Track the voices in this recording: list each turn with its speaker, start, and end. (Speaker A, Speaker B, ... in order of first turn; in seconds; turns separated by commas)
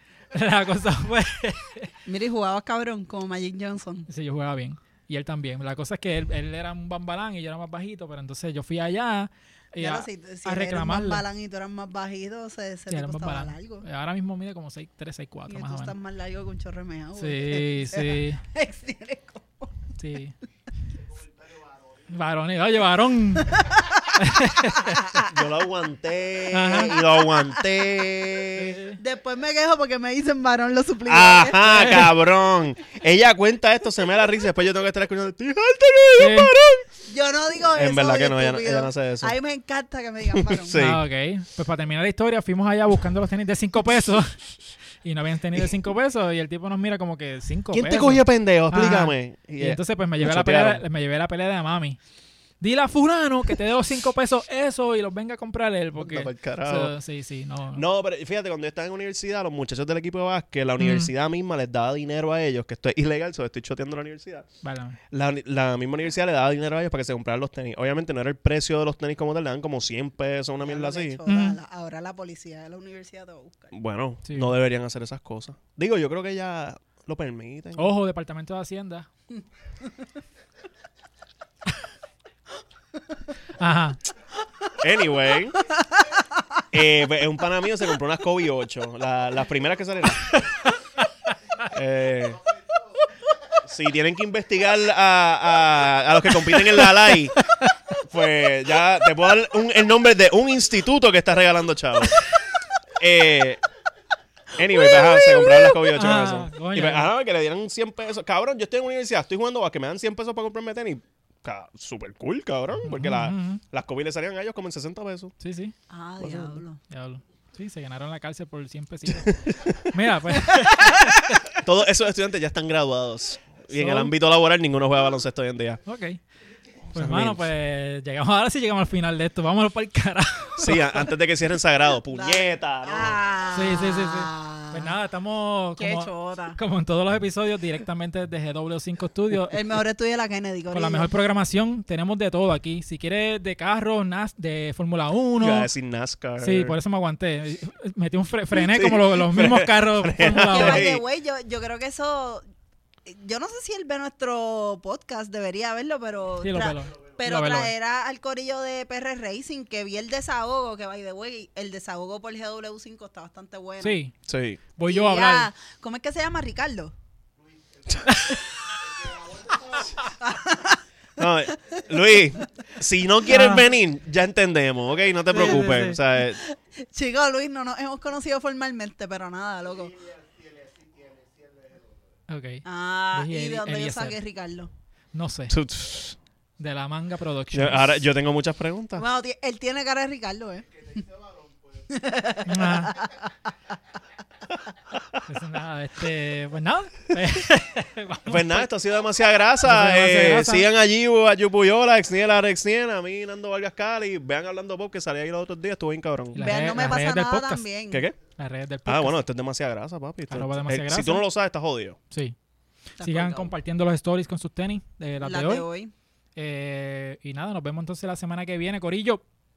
Speaker A: 0.3-1.9, Speaker B: 2.0-4.1, Speaker A: 4.1-11.2, Speaker B: 9.8-13.9, Speaker A: 12.9-15.9, Speaker B: 15.5-19.9, Speaker A: 17.2-18.4, Speaker A: 20.0-20.4, Speaker A: 22.1-25.1, Speaker B: 23.5-24.1, Speaker B: 24.9-25.3, Speaker C: 25.3-28.8, Speaker A: 26.5-26.9, Speaker B: 26.6-27.6, Speaker A: 28.6-29.0, Speaker B: 29.0-32.0, Speaker C: 31.1-36.9, Speaker A: 31.7-32.1, Speaker A: 36.2-36.5, Speaker B: 37.1-40.8, Speaker C: 37.7-39.3, Speaker C: 40.3-41.0, Speaker A: 40.8-44.4, Speaker A: 45.0-52.0, Speaker C: 47.7-50.8, Speaker A: 52.6-57.8, Speaker C: 56.0-56.9, Speaker C: 57.7-64.5, Speaker A: 60.8-61.1, Speaker A: 64.6-65.0, Speaker C: 65.1-71.2, Speaker B: 70.6-73.7, Speaker A: 71.3-71.6, Speaker C: 73.7-77.9, Speaker A: 74.3-74.5, Speaker A: 77.8-79.1, Speaker A: 83.6-84.0, Speaker C: 84.8-85.7, Speaker B: 85.7-86.2, Speaker C: 86.7-90.3, Speaker C: 91.7-92.5, Speaker C: 93.6-97.4, Speaker A: 97.4-97.8, Speaker C: 98.0-102.3, Speaker C: 102.9-103.6, Speaker C: 104.5-115.3, Speaker B: 104.9-105.6, Speaker A: 105.4-107.1, Speaker A: 112.8-113.6, Speaker A: 115.4-115.8, Speaker B: 115.9-116.8, Speaker A: 116.9-121.5, Speaker C: 119.1-119.9, Speaker C: 121.5-125.8, Speaker A: 123.7-124.1, Speaker A: 125.9-126.2, Speaker C: 126.9-127.5, Speaker A: 126.9-131.0, Speaker C: 130.6-133.2, Speaker B: 132.1-134.9, Speaker A: 133.5-139.6, Speaker B: 135.8-136.6, Speaker B: 139.5-141.1, Speaker A: 140.7-145.7, Speaker C: 145.4-146.8, Speaker A: 146.4-150.9, Speaker C: 148.5-151.0, Speaker B: 150.3-152.4, Speaker B: 153.1-164.0, Speaker A: 156.4-157.7, Speaker A: 163.8-164.2, Speaker C: 164.3-164.6, Speaker A: 164.8-165.5, Speaker B: 164.8-166.9, Speaker A: 168.1-168.4, Speaker B: 169.8-170.8, Speaker C: 171.2-176.4, Speaker A: 173.3-173.6, Speaker A: 175.3-176.0, Speaker B: 176.2-180.1, Speaker A: 182.3-184.2, Speaker B: 182.6-184.7, Speaker A: 185.1-185.6, Speaker C: 185.5-186.2, Speaker A: 186.6-188.0, Speaker C: 187.5-189.1, Speaker B: 189.0-191.1, Speaker B: 191.9-193.2, Speaker A: 192.5-192.9, Speaker A: 195.2-198.7, Speaker C: 198.3-206.5, Speaker A: 199.6-200.7, Speaker A: 206.3-207.7, Speaker B: 206.4-208.1, Speaker C: 207.9-208.2, Speaker A: 208.4-209.2, Speaker C: 208.9-212.0, Speaker A: 210.3-211.2, Speaker B: 213.0-213.5, Speaker A: 213.0-215.7, Speaker B: 215.2-215.9, Speaker A: 216.4-219.2